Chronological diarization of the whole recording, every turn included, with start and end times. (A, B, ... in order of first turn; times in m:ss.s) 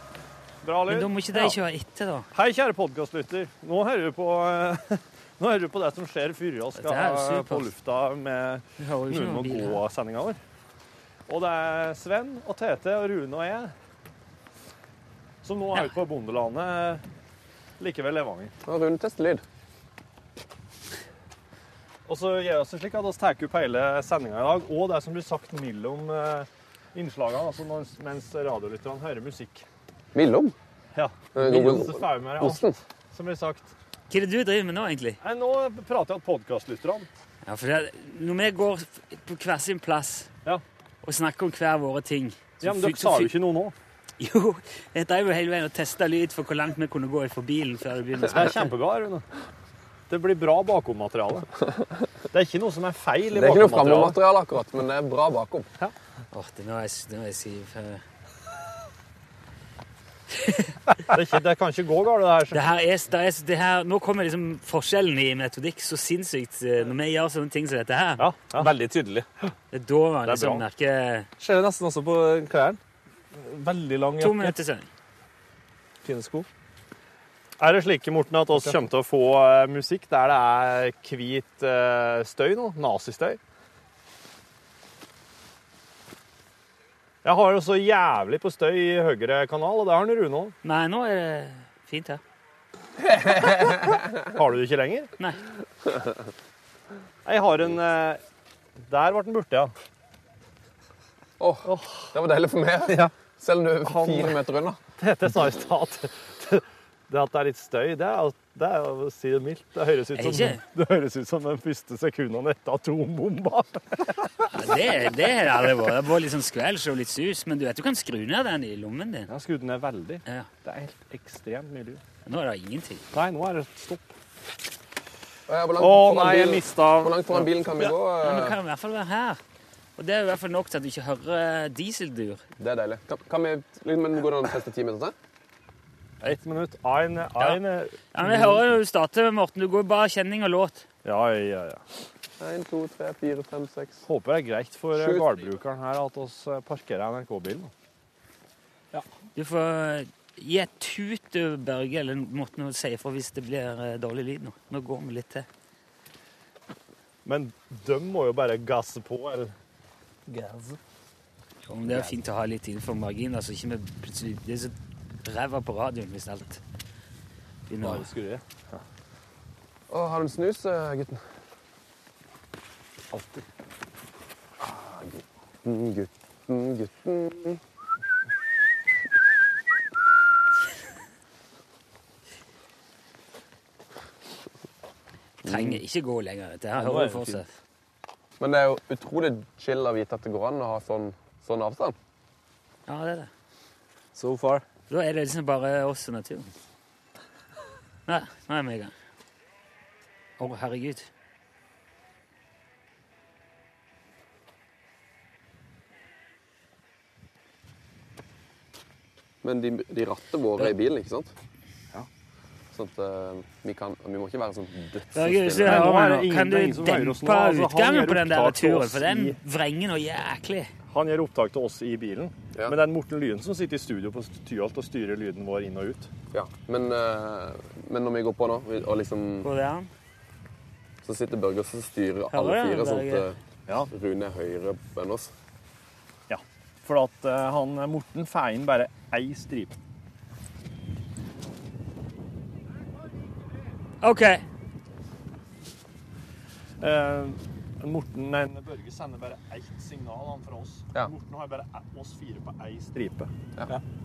0:00.6-0:01.6 A
0:00.9-0:02.3 B
0:02.3-0:10.4 A
0:06.8-0:07.7 B
0:08.8-0:09.8 B
0:11.3-0:13.7 A
0:15.4-0:17.0 A
0:17.8-0:18.5 A
0:18.7-0:19.4 C
0:22.1-0:29.6 A
0:30.1-0:30.6 C
0:31.0-0:33.7 A
0:31.3-0:32.8 C
0:34.1-0:35.2 B
0:35.2-0:37.1 A
0:37.4-0:40.3 B
0:41.0-0:43.4 B
0:42.6-0:43.8 A
0:44.2-0:48.7 B
0:48.3-0:49.2 A
0:50.1-0:51.5 A
0:52.3-0:54.2 A
0:53.3-0:55.7 C
0:56.3-0:58.0 B
1:00.3-1:00.9 B
1:01.1-1:02.6 A
1:02.5-1:08.2 B
1:08.2-1:08.7 A
1:08.6-1:09.3 D
1:09.7-1:11.3 B
1:10.2-1:10.6 A
1:11.4-1:12.8 D
1:13.4-1:14.6 D
1:14.2-1:14.9 B
1:16.0-1:16.5 D
1:17.6-1:23.4 A
1:27.2-1:30.6 A
1:30.6-1:32.2 B
1:33.0-1:34.1 C
1:34.3-1:35.1 A
1:37.2-1:38.2 A
1:38.9-1:39.7 A
1:41.4-1:44.8 C
1:41.6-1:42.1 A
1:43.8-1:44.4 A
1:45.0-1:54.5 A
1:50.1-1:50.6 B
1:54.5-1:59.3 B
1:59.3-2:02.0 A
2:02.3-2:03.0 B
2:03.1-2:04.1 A
2:05.5-2:08.6 C
2:05.8-2:07.5 A
2:07.8-2:09.4 B
2:10.0-2:12.4 B
2:12.6-2:15.1 C
2:16.2-2:18.6 A
2:18.1-2:20.8 B
2:21.0-2:21.8 A
2:22.4-2:24.0 C
2:24.1-2:27.7 A
2:25.0-2:25.4 C
2:29.4-2:35.5 B
2:37.2-2:39.5 A
2:40.3-2:40.8 D
2:41.7-2:44.7 B
2:45.2-2:46.6 B
2:47.7-2:48.1 B
2:47.8-2:48.4 D
2:49.9-2:51.2 C
2:54.6-2:57.6 C
3:05.4-3:05.8 C
3:05.4-3:07.5 B
3:06.8-3:07.4 D
3:08.4-3:12.0 C
3:12.9-3:13.3 B
3:14.2-3:14.6 D
3:14.9-3:16.5 B
3:18.1-3:18.9 B
3:20.4-3:21.1 B
3:29.4-3:31.3 C
3:32.7-3:36.0 C
3:35.1-3:40.7 B
3:35.6-3:39.4 A
3:40.9-3:46.1 A
3:46.3-3:49.5 C
3:49.4-3:49.9 B
3:51.0-3:55.3 C
3:52.3-3:53.3 B
3:56.3-3:59.8 A
4:04.0-4:04.4 B
4:06.8-4:13.3 A